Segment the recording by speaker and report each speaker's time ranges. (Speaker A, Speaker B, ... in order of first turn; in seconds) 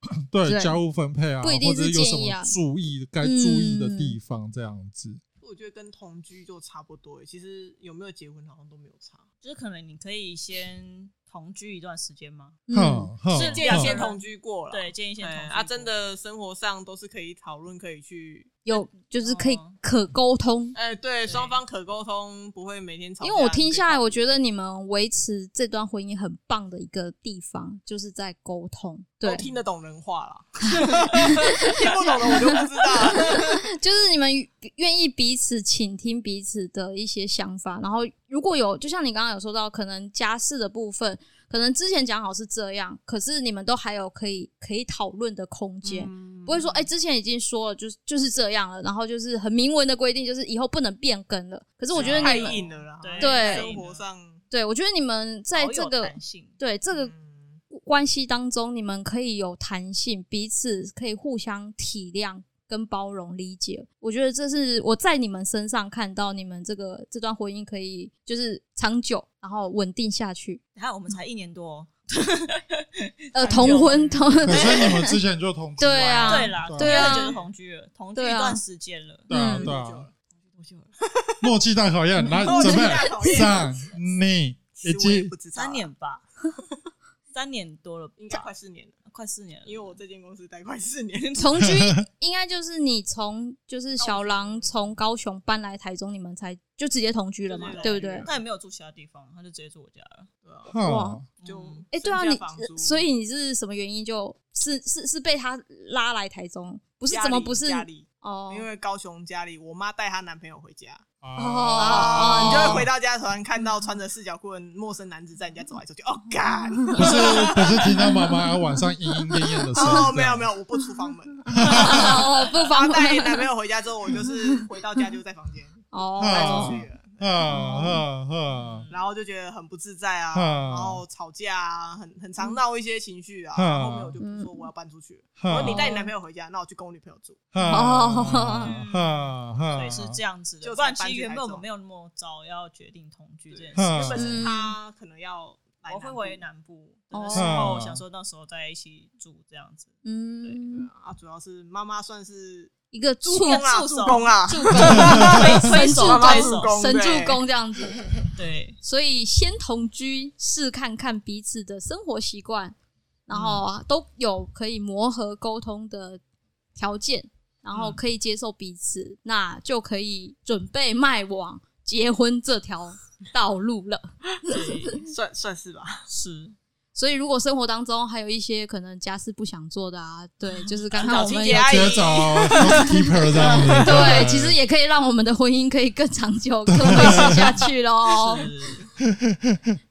Speaker A: 0.3-5.2, 12.7-14.0, 74.5-77.2, 79.3-80.1, 81.4-85.3, 91.6-92.0, 100.7-101.3, 111.2-112.9, 117.0-120.5, 121.5-122.2, 126.2-128.9, 130.3-131.0, 133.5-134.2, 135.4-135.8, 137.5-140.2, 143.7-144.5, 147.3-148.0, 181.6-184.6, 186.7-187.6, 189.1-189.8
Speaker B: 0.4-0.8, 1.4-2.5, 3.2-4.2, 12.7-13.1, 18.6-20.8, 23.2-29.5, 30.8-31.4, 33.0-52.6, 53.2-53.8, 54.5-57.1, 57.7-70.6, 73.3-75.2, 75.8-77.4, 78.2-78.6, 79.3-79.7, 82.5-83.5, 91.4-98.3, 100.8-101.2, 101.9-108.7, 111.4-112.8, 116.7-117.6, 119.8-120.1, 121.5-123.5, 124.2-124.5, 125.9-126.9, 127.4-128.0, 134.2-134.7, 135.7-136.1, 137.7-138.7, 144.2-144.8, 147.1-147.6, 150.1-150.9, 152.9-158.0, 158.8-162.8, 163.3-166.2, 166.8-174.9, 176.9-181.9, 183.8-188.5
Speaker C: 5.4-9.2, 13.3-18.6, 20.8-24.2, 29.2-33.6, 45.8-46.9, 51.9-54.4, 56.9-57.6, 73.4-74.3, 76.9-77.4, 79.3-80.1, 81.0-81.5, 82.4-84.0, 84.8-85.9, 88.2-89.0, 89.7-91.6, 94.0-94.7, 97.5-98.4, 100.5-100.8, 101.4-103.0, 107.1-111.0, 111.8-117.9, 119.8-127.6, 128.9-137.5, 140.6-141.7, 143.5-146.4, 150.7-152.7, 153.2-157.4, 174.9-176.1, 180.9-184.2
Speaker D: 9.4-12.6, 13.3-15.9, 18.8-19.8, 21.2-21.6, 52.0-54.0, 55.5-56.5, 70.8-74.8, 76.2-79.3, 80.5-80.9, 85.5-86.2, 87.3-88.5, 89.1-90.0, 97.6-100.3, 101.4-101.8, 128.6-129.1, 138.3-144.3, 145.9-149.9, 153.3-156.7, 158.3-158.8, 163.3-163.6, 167.7-168.0, 174.5-175.0, 176.1-176.6, 180.6-181.5, 188.2-188.9